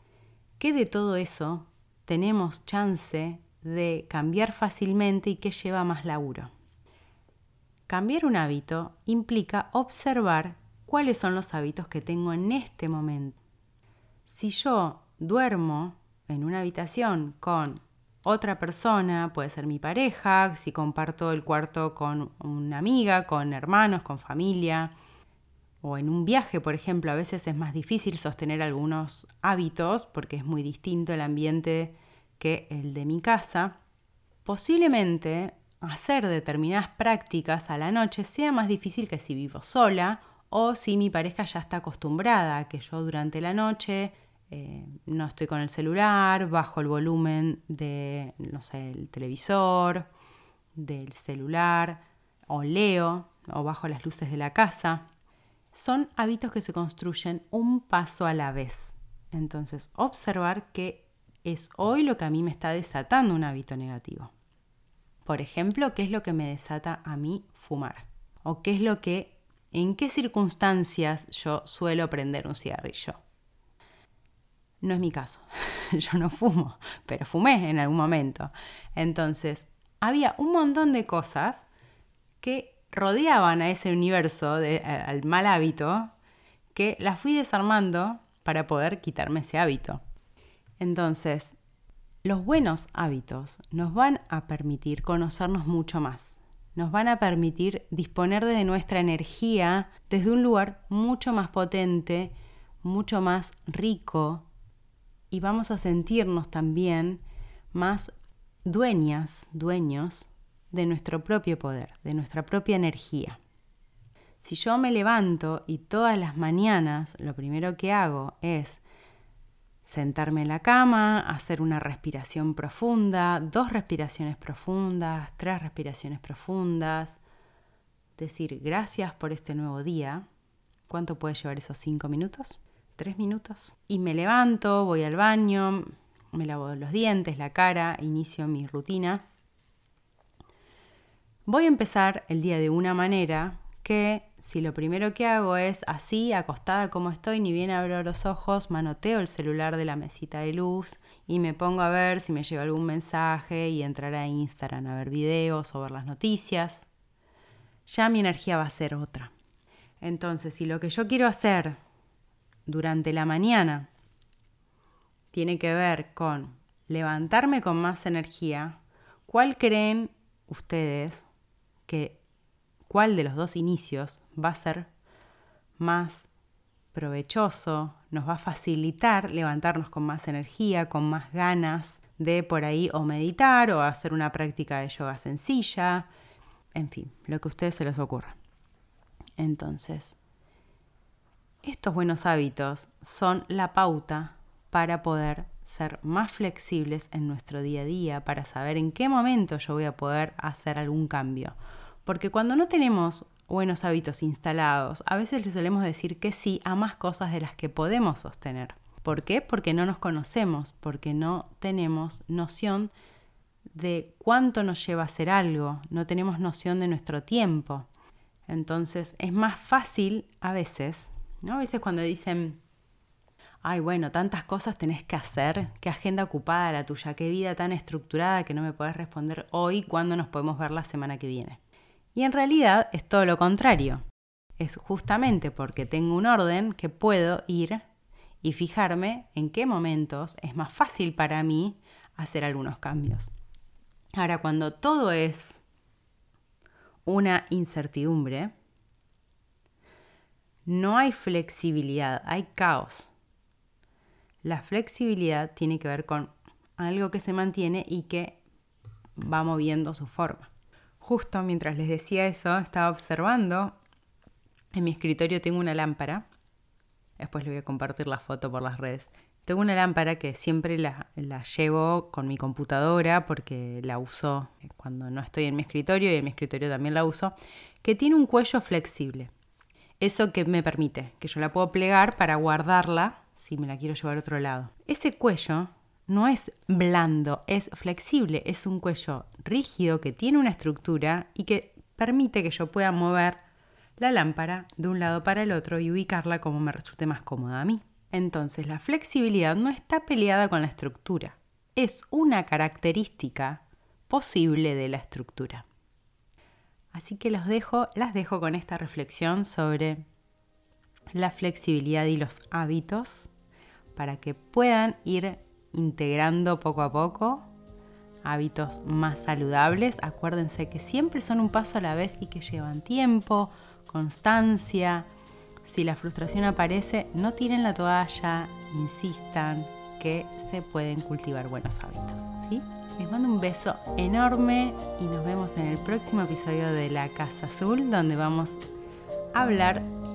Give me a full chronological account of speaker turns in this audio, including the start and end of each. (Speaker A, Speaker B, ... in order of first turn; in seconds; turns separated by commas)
Speaker A: 0.6-6.5, Speaker A: 7.9-13.4, Speaker A: 14.2-24.9, Speaker A: 25.8-33.8, Speaker A: 34.4-50.1, Speaker A: 50.7-55.0, Speaker A: 55.7-64.3, Speaker A: 65.2-73.2, Speaker A: 74.8-81.7, Speaker A: 82.4-86.1, Speaker A: 86.7-90.0, Speaker A: 90.8-91.6, Speaker A: 92.2-104.5, Speaker A: 105.3-108.1, Speaker A: 108.6-113.4, Speaker A: 114.4-118.8, Speaker A: 119.8-127.2, Speaker A: 128.2-130.2, Speaker A: 130.9-139.2, Speaker A: 141.4-156.9, Speaker A: 157.8-159.3, Speaker A: 160.0-161.8, Speaker A: 162.7-163.9, Speaker A: 165.3-171.3, Speaker A: 171.8-172.2, Speaker A: 172.9-174.9, Speaker A: 175.8-176.3, Speaker A: 176.9-186.1, Speaker A: 186.7-188.3, Speaker A: 189.4-190.2, Speaker A: 191.6-212.9, Speaker A: 213.7-217.9, Speaker A: 218.5-222.6, Speaker A: 223.6-231.6, Speaker A: 232.1-234.0, Speaker A: 234.6-237.8, Speaker A: 238.4-243.3, Speaker A: 244.1-245.6, Speaker A: 247.1-248.5, Speaker A: 250.7-253.1, Speaker A: 254.4-258.4, Speaker A: 259.1-260.5, Speaker A: 261.0-263.8, Speaker A: 264.7-266.2, Speaker A: 267.2-279.3, Speaker A: 280.0-293.4, Speaker A: 294.0-305.6, Speaker A: 306.9-310.0, Speaker A: 311.1-313.3, Speaker A: 313.9-317.5, Speaker A: 318.2-325.1, Speaker A: 325.6-338.6, Speaker A: 339.3-339.9